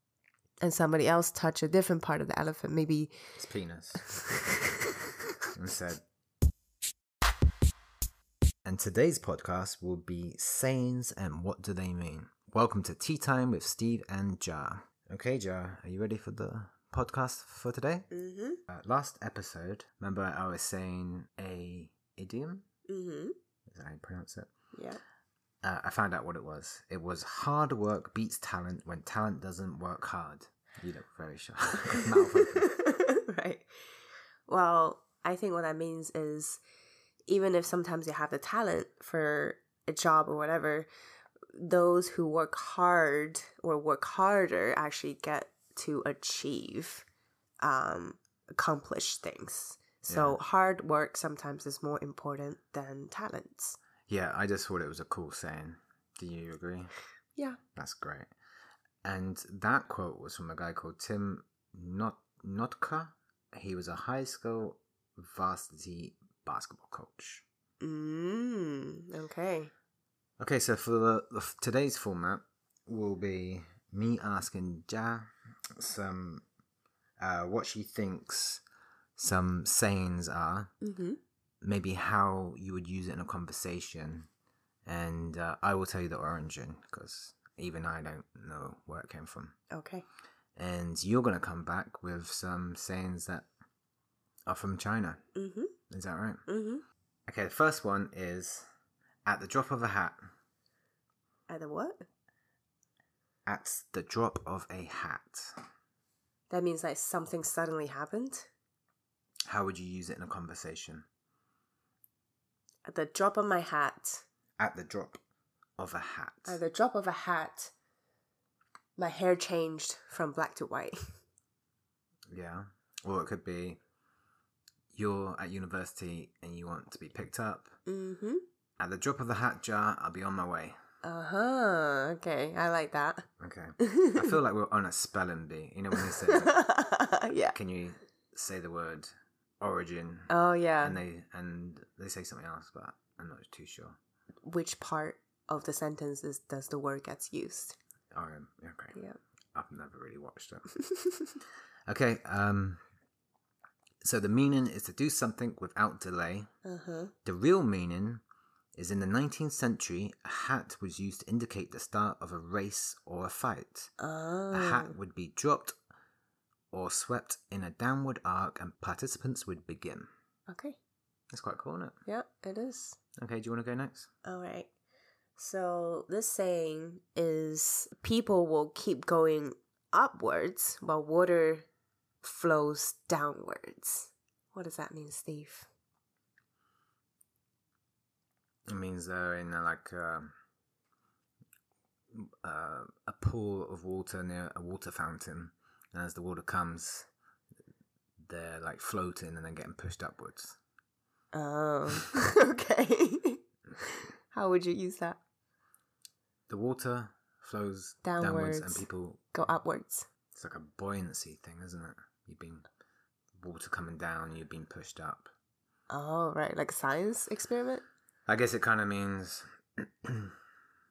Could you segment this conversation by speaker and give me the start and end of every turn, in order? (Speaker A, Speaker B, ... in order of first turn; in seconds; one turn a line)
Speaker A: 0.6-3.1
Speaker B: 3.4-4.0
Speaker B: 5.5-6.0
Speaker B: 8.7-18.1
Speaker A: 18.1-18.6
Speaker B: 18.7-22.7
Speaker A: 22.9-23.4
Speaker B: 23.7-24.5
Speaker A: 24.7-25.0
Speaker B: 25.6-32.8
Speaker A: 32.0-33.7
Speaker A: 34.5-36.6
Speaker A: 37.3-40.9
Speaker A: 41.5-47.1
Speaker A: 47.6-53.8
Speaker B: 50.1-50.4
Speaker B: 54.1-56.9
Speaker B: 57.8-58.3
Speaker B: 59.0-67.5
Speaker A: 67.8-69.7
Speaker B: 70.4-76.4
Speaker B: 77.2-78.6
Speaker B: 79.2-80.7
Speaker A: 80.8-81.2
Speaker B: 81.6-84.3
Speaker B: 84.9-89.6
Speaker A: 89.7-90.1
Speaker B: 90.6-93.5
Speaker B: 94.5-95.2
Speaker A: 95.3-95.7
Speaker B: 95.9-96.4
Speaker A: 96.5-96.8
Speaker B: 97.3-98.7
Speaker B: 99.3-100.3
Speaker A: 101.5-102.1
Speaker B: 103.5-105.7
Speaker A: 106.5-108.5
Speaker B: 109.5-111.1
Speaker A: 112.9-114.2
Speaker B: 114.6-115.2
Speaker B: 115.8-116.6
Speaker A: 116.5-117.7
Speaker A: 119.0-121.0
Speaker B: 122.3-123.8
Speaker B: 124.9-127.8
Speaker A: 127.9-128.4
Speaker B: 128.8-130.8
Speaker A: 131.0-133.3
Speaker B: 133.4-136.6
Speaker A: 133.8-134.3
Speaker A: 136.0-137.6
Speaker B: 137.5-144.0
Speaker A: 140.3-141.0
Speaker A: 144.4-147.8
Speaker B: 148.1-149.0
Speaker B: 149.5-150.7
Speaker A: 150.8-151.4
Speaker B: 151.9-152.8
Speaker B: 154.0-156.5
Speaker A: 156.7-157.1
Speaker B: 157.2-158.2
Speaker B: 158.8-163.9
Speaker A: 164.0-164.9
Speaker B: 164.5-165.8
Speaker B: 166.7-170.1
Speaker A: 170.5-170.8
Speaker B: 171.3-172.0
Speaker A: 172.1-173.0
Speaker B: 173.2-174.1
Speaker A: 174.2-174.7
Speaker A: 175.4-181.7
Speaker A: 182.2-185.7
Speaker B: 188.7-190.3
Speaker B: 192.1-197.1
Speaker B: 198.2-200.6
Speaker A: 201.3-205.2
Speaker B: 206.5-209.2
Speaker A: 208.0-210.1
Speaker B: 210.3-212.7
Speaker B: 213.4-215.3
Speaker A: 215.9-217.8
Speaker B: 218.3-220.4